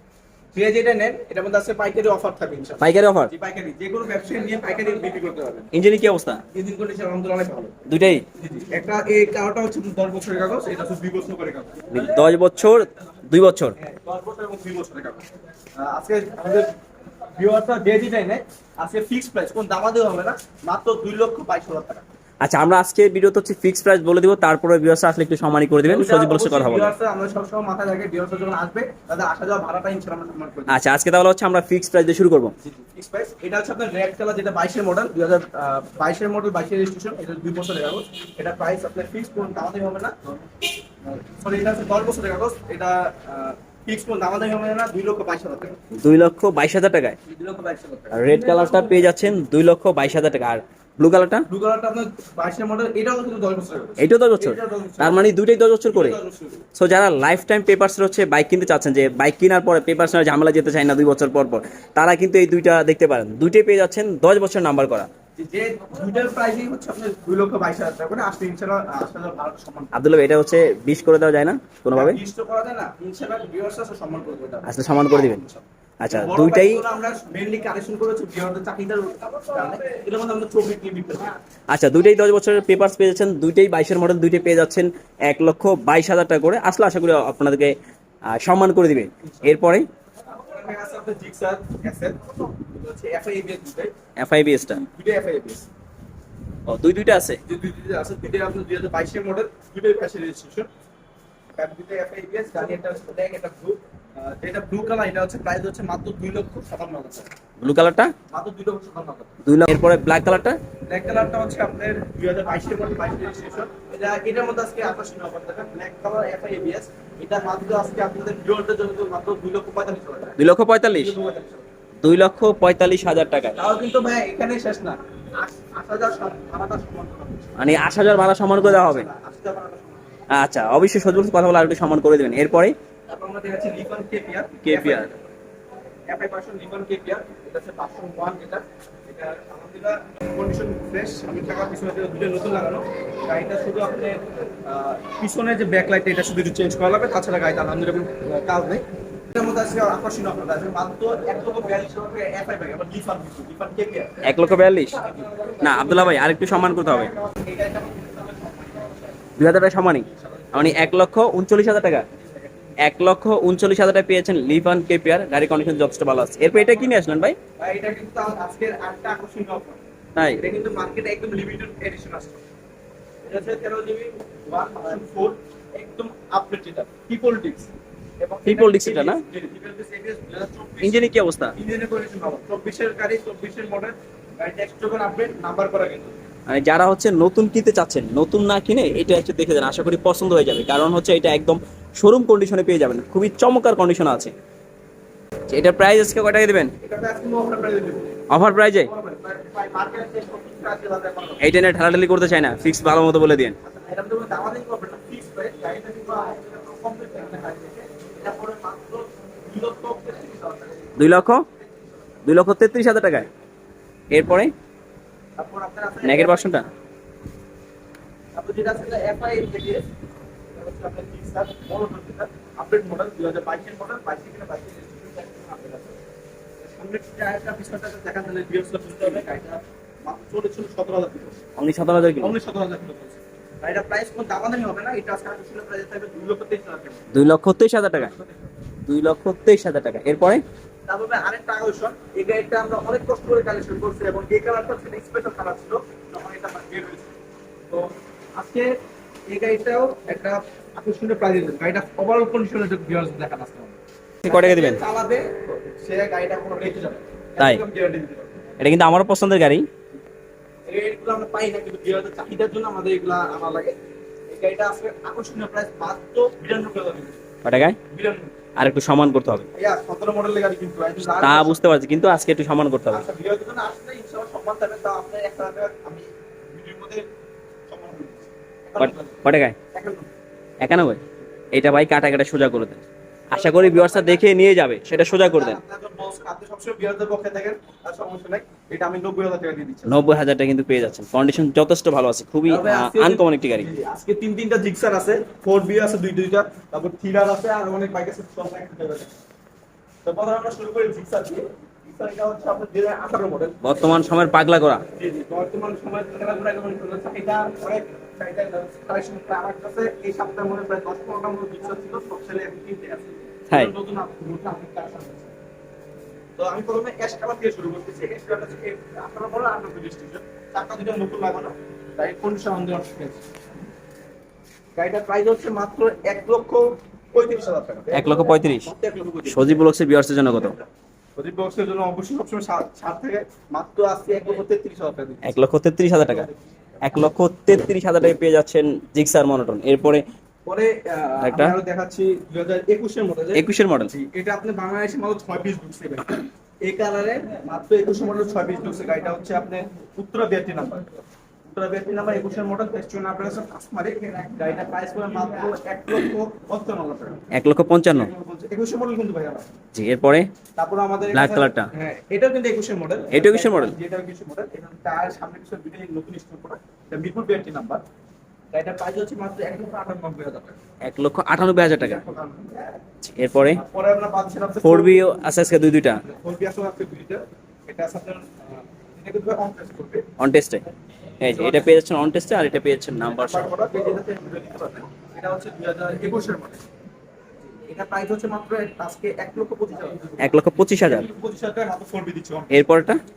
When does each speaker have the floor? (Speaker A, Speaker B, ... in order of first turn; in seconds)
Speaker A: 0.5-5.7, 6.5-7.8, 8.3-12.2, 13.8-15.2, 15.8-16.7, 17.4-22.1, 25.9-30.8, 32.6-40.1, 41.0-45.8, 47.3-49.1, 51.5-55.3, 55.9-56.6, 65.4-70.0, 71.9-81.4, 90.3-93.9, 94.9-95.7, 97.5-100.7, 101.6-107.3, 108.3-109.3, 110.9-120.4, 120.9-121.7, 123.6-127.6, 128.6-130.0, 133.1-135.2, 136.1-154.4, 154.9-159.2, 159.9-160.9, 166.5-167.0, 167.6-169.8, 170.4-172.4, 173.2-186.2, 196.8-201.4, 203.6-212.0, 215.4-216.6, 218.3-219.9, 220.5-226.0, 226.6-231.4, 232.2-237.1, 240.9-248.8, 249.3-258.3, 260.7-263.8, 264.3-267.2, 267.9-268.4, 269.5-271.6, 272.9-277.1, 277.7-280.1, 283.3-284.4, 284.9-290.0, 292.5-299.1, 300.1-303.6, 304.9-315.3, 316.4-323.2, 324.8-329.6, 331.2-335.4, 335.9-336.4, 340.5-350.9, 351.4-357.2, 357.9-359.5, 360.6-367.8, 368.5-370.6, 371.8-372.8, 373.5-375.0, 376.1-380.1, 381.3-381.8, 383.1-386.6, 387.5-390.2, 390.8-392.5
Speaker B: 2.8-3.3, 5.7-6.4, 7.9-8.2, 11.9-13.8, 22.4-26.9, 30.7-32.5, 46.0-47.2, 48.1-51.5, 54.0-56.2, 56.8-65.1, 69.9-72.2, 74.7-75.4, 76.0-76.8, 81.7-87.7, 88.3-89.9, 94.2-94.8, 96.7-97.4, 107.6-108.1, 109.5-110.6, 120.4-121.2, 122.0-123.6, 127.6-129.1, 130.3-132.8, 134.6-135.1, 154.2-155.0, 155.6-157.1, 159.4-162.1, 162.8-167.4, 170.2-170.4, 178.4-179.2, 180.8-181.6, 186.5-194.3, 195.5-196.7, 198.3-198.9, 201.4-203.6, 211.0-211.4, 212.2-213.3, 214.1-214.5, 216.0-216.7, 231.6-232.4, 237.1-238.1, 238.9-240.4, 254.2-254.8, 258.6-259.7, 267.4-267.8, 268.6-269.5, 271.1-273.1, 278.8-279.6, 280.6-281.0, 281.5-285.6, 289.9-293.7, 303.6-304.8, 327.9-328.7, 329.3-330.6, 335.2-336.3, 336.8-340.0, 341.2-341.5, 343.4-343.9, 357.3-358.1, 359.7-360.3, 361.1-361.7, 363.1-363.7, 370.8-372.0, 373.0-373.6, 374.6-376.0, 380.2-380.6, 381.2-383.6, 390.2-391.1, 392.5-393.0